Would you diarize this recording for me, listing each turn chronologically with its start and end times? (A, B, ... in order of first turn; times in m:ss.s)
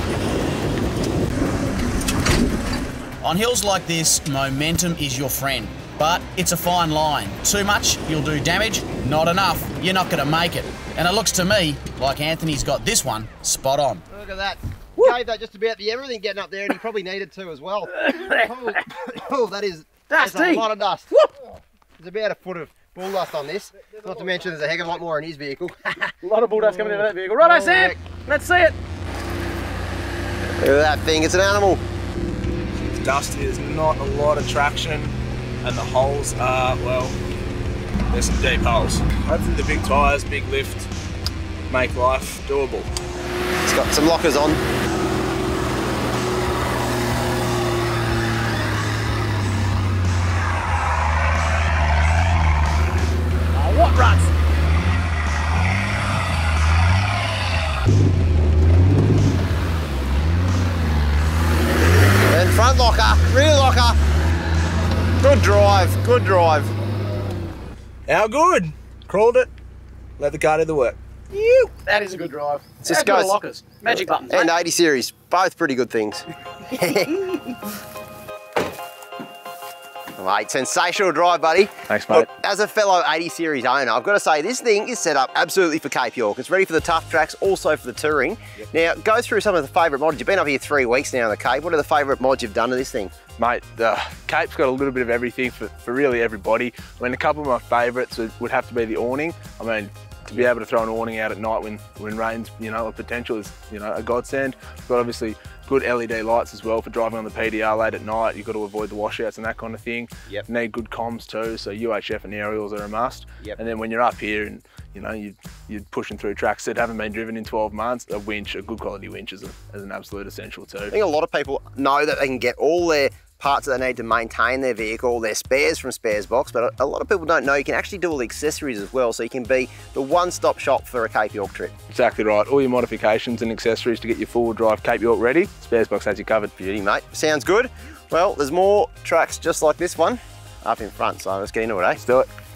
0:03.2-0:14.0 A
0:14.1-0:21.1 B
0:18.0-0:18.8 C
0:20.1-0:21.3 C
0:22.0-0:28.0 B
0:26.2-0:28.7 C
0:30.6-0:31.8 B
0:32.9-0:37.2 D
0:38.1-0:40.9 D
0:41.7-0:42.9 D
0:43.6-0:44.6 B
0:53.5-0:54.3 C
1:02.3-1:04.0 B
1:05.2-1:06.7 B
1:08.1-1:09.5 D
1:10.2-1:11.0 D
1:11.3-1:14.5 C
1:12.8-1:17.4 B
1:20.2-1:33.1 B
1:21.9-1:22.2 D
1:33.4-2:00.9 D
2:00.9-2:11.7 B
2:11.9-2:16.5 D
2:16.6-2:22.0 B
2:22.0-2:22.3 D